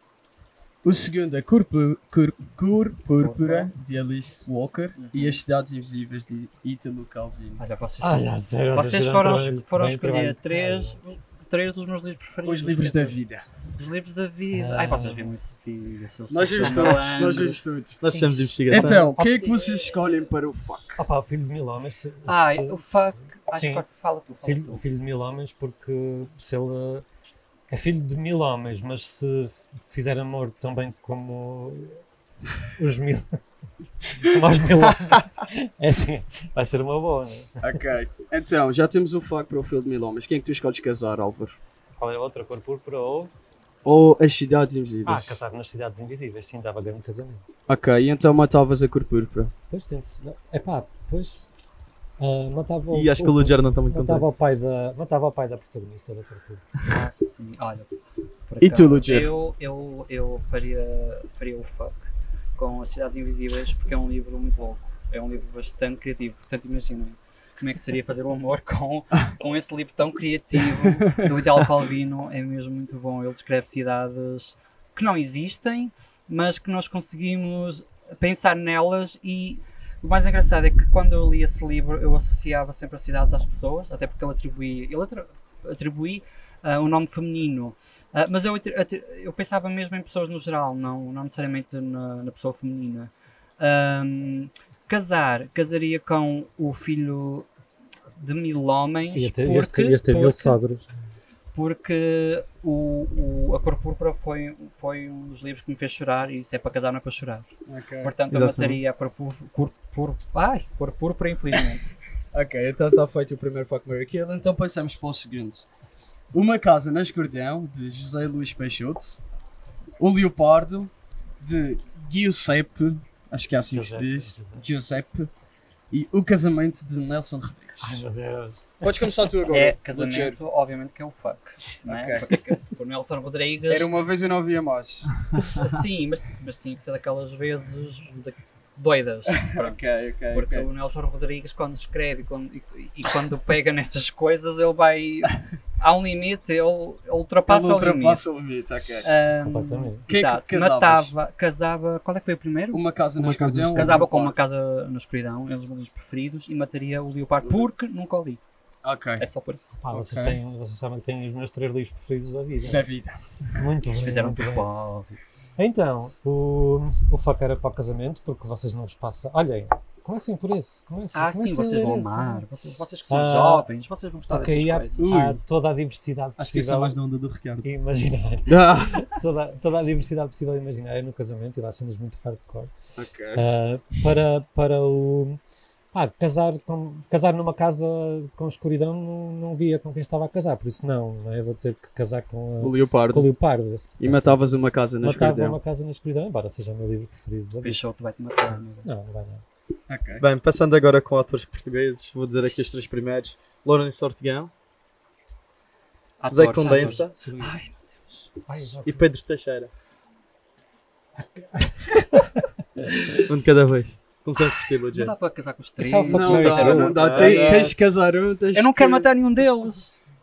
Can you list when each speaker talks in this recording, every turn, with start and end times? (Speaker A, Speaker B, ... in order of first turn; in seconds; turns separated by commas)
Speaker A: 0.8-7.6, Speaker B: 3.2-3.7, Speaker B: 5.0-5.4, Speaker B: 7.6-13.2, Speaker C: 8.0-11.0, Speaker A: 12.4-13.5, Speaker B: 13.7-20.0, Speaker C: 14.5-15.3, Speaker A: 16.3-18.0, Speaker D: 18.0-19.1, Speaker A: 18.7-21.0, Speaker C: 19.1-19.4, Speaker C: 20.9-23.8, Speaker B: 22.2-24.8, Speaker C: 24.4-27.1, Speaker C: 27.7-32.0, Speaker C: 32.7-33.4, Speaker C: 34.1-37.7, Speaker A: 37.6-41.6, Speaker C: 42.0-43.3, Speaker A: 43.8-45.3, Speaker C: 45.0-47.5, Speaker A: 47.7-49.5, Speaker C: 49.7-51.5, Speaker C: 52.2-56.8, Speaker D: 52.9-54.3, Speaker B: 56.9-57.9, Speaker B: 58.5-97.5, Speaker A: 58.6-59.3, Speaker B: 98.2-100.6, Speaker C: 99.1-100.9, Speaker B: 101.5-107.5, Speaker A: 107.7-108.8, Speaker B: 108.0-111.9, Speaker A: 112.3-115.7, Speaker A: 116.3-119.2, Speaker A: 120.0-125.3, Speaker C: 123.7-124.7, Speaker A: 125.9-128.0, Speaker C: 127.8-129.1, Speaker A: 128.8-130.4, Speaker B: 129.5-133.9, Speaker A: 131.8-132.4, Speaker A: 133.7-135.3, Speaker B: 135.5-139.8, Speaker A: 139.3-140.7, Speaker B: 140.3-148.4, Speaker A: 147.5-149.1, Speaker B: 149.0-152.8, Speaker C: 149.3-150.1, Speaker A: 150.1-151.1, Speaker A: 152.7-154.3, Speaker D: 153.2-154.0, Speaker B: 153.7-158.4, Speaker A: 158.8-159.2, Speaker B: 159.2-159.8, Speaker C: 159.8-162.8, Speaker A: 159.9-160.4, Speaker A: 162.6-163.7, Speaker C: 163.6-164.7, Speaker B: 163.9-165.2, Speaker C: 165.6-172.4, Speaker B: 171.1-175.2, Speaker C: 173.1-173.7, Speaker C: 174.3-176.9, Speaker A: 175.0-175.3, Speaker D: 176.4-177.7, Speaker C: 177.6-182.7, Speaker A: 178.5-179.1, Speaker A: 182.9-183.4, Speaker C: 183.3-185.4, Speaker C: 185.9-194.4, Speaker A: 192.6-193.3, Speaker A: 194.0-195.6, Speaker C: 195.0-197.8, Speaker B: 197.6-198.9, Speaker C: 198.4-199.4, Speaker A: 199.9-200.2, Speaker D: 200.2-204.5, Speaker B: 206.2-208.4, Speaker D: 206.3-207.1, Speaker C: 206.6-207.6, Speaker C: 208.4-209.1, Speaker D: 208.8-209.7, Speaker C: 211.1-213.4, Speaker D: 213.2-215.1, Speaker B: 214.9-217.7, Speaker C: 215.8-217.3, Speaker A: 216.1-219.1, Speaker D: 217.0-217.7, Speaker B: 218.5-220.0